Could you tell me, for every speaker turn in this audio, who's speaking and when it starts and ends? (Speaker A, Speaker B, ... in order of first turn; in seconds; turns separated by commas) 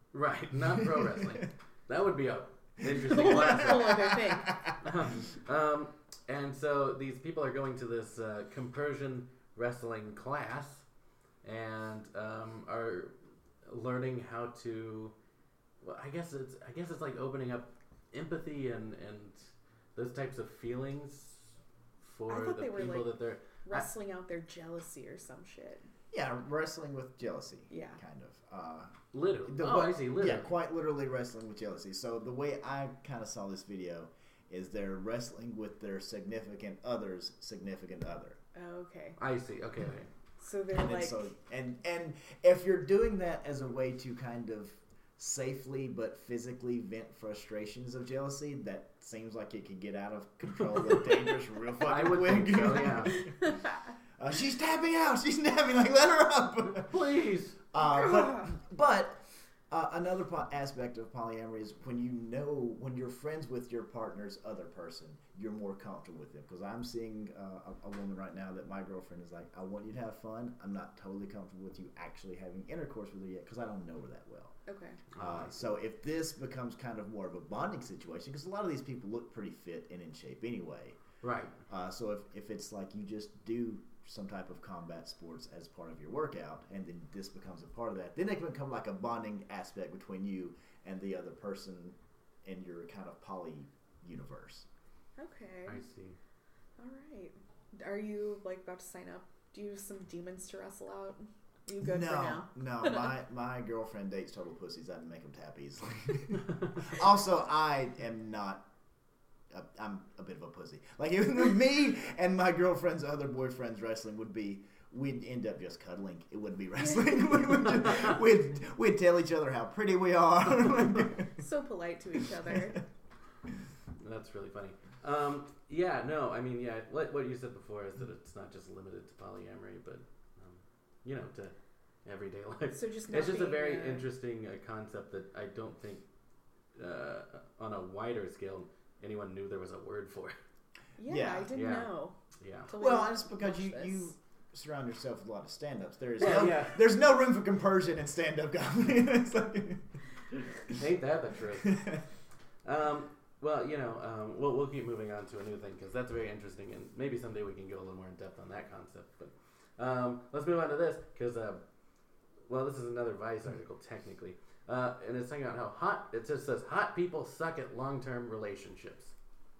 Speaker A: 0.1-4.0, Speaker B: 0.7-1.1, Speaker B: 2.8-4.7, Speaker C: 2.9-4.6, Speaker A: 4.7-10.8, Speaker A: 11.4-13.1, Speaker A: 13.7-15.1, Speaker A: 15.8-19.4, Speaker A: 19.9-21.4, Speaker A: 22.0-23.9, Speaker C: 22.3-25.8, Speaker B: 26.1-28.9, Speaker C: 27.7-28.0, Speaker A: 29.1-30.5, Speaker B: 29.4-38.4, Speaker C: 38.5-39.2, Speaker A: 39.2-40.1, Speaker C: 40.4-41.2, Speaker B: 40.7-53.5, Speaker A: 51.8-53.2, Speaker C: 53.0-53.8, Speaker B: 54.2-57.0, Speaker A: 56.7-57.6, Speaker B: 57.7-74.5, Speaker C: 57.8-58.5, Speaker C: 74.7-75.0, Speaker A: 75.1-75.5, Speaker B: 75.2-81.0, Speaker A: 81.2-81.5, Speaker B: 81.7-94.7, Speaker C: 95.2-95.8, Speaker A: 95.7-96.2, Speaker C: 96.8-103.1, Speaker B: 101.8-108.7, Speaker B: 109.5-121.3, Speaker C: 116.8-117.4, Speaker C: 121.3-122.8, Speaker A: 124.0-131.5, Speaker A: 132.0-136.0, Speaker C: 132.7-134.1, Speaker A: 136.8-140.3, Speaker C: 141.0-142.1, Speaker B: 141.1-141.5, Speaker A: 141.5-142.7, Speaker C: 142.7-144.1, Speaker B: 142.8-149.8, Speaker A: 146.2-146.9, Speaker B: 150.4-150.7, Speaker A: 150.7-151.8, Speaker B: 151.6-152.0, Speaker A: 152.6-161.6, Speaker A: 162.5-169.1